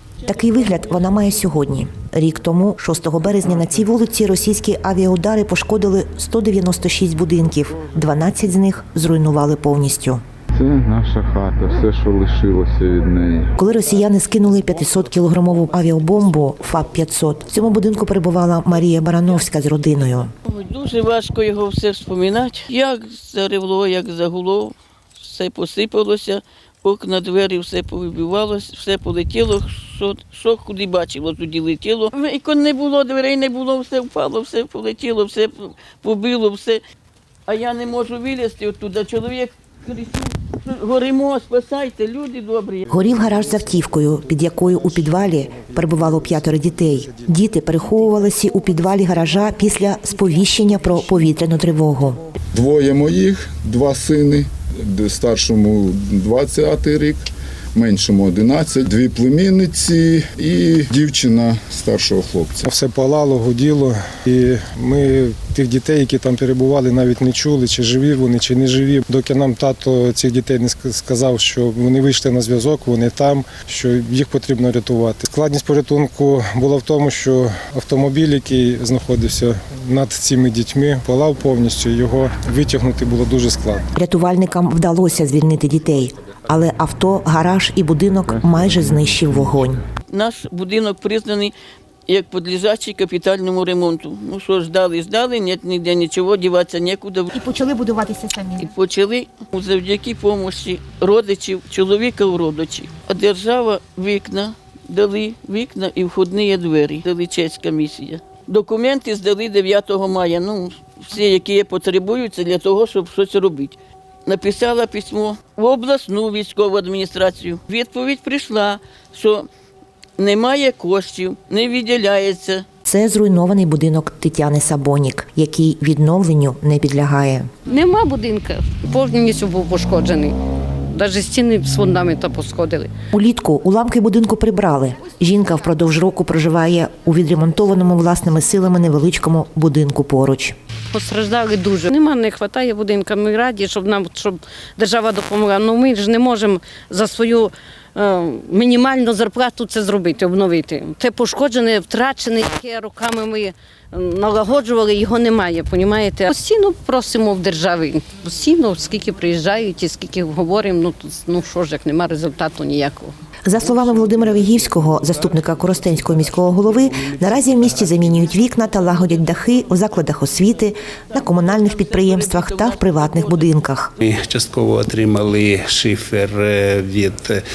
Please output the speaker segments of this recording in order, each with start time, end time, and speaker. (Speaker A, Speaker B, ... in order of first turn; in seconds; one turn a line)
Speaker A: 0.2-10.2
Speaker B: 10.6-13.5
Speaker A: 13.6-20.3
Speaker C: 20.4-36.8
Speaker C: 37.5-42.8
Speaker A: 42.9-52.2
Speaker B: 52.5-57.2
Speaker B: 57.7-62.7
Speaker D: 62.7-83.9
Speaker A: 83.9-89.8
Speaker C: 90.1-91.5
Speaker C: 92.1-97.5
Speaker C: 98.5-119.5
Speaker C: 120.2-122.6
Speaker A: 122.8-127.5
Speaker E: 127.7-130.3
Speaker E: 130.9-132.9
Speaker A: 133.1-140.5
Speaker E: 140.9-163.1
Speaker A: 163.4-173.9
Speaker C: 171.5-173.5
Speaker D: 174.0-177.1
Speaker F: 174.4-176.3
Speaker F: 176.9-177.3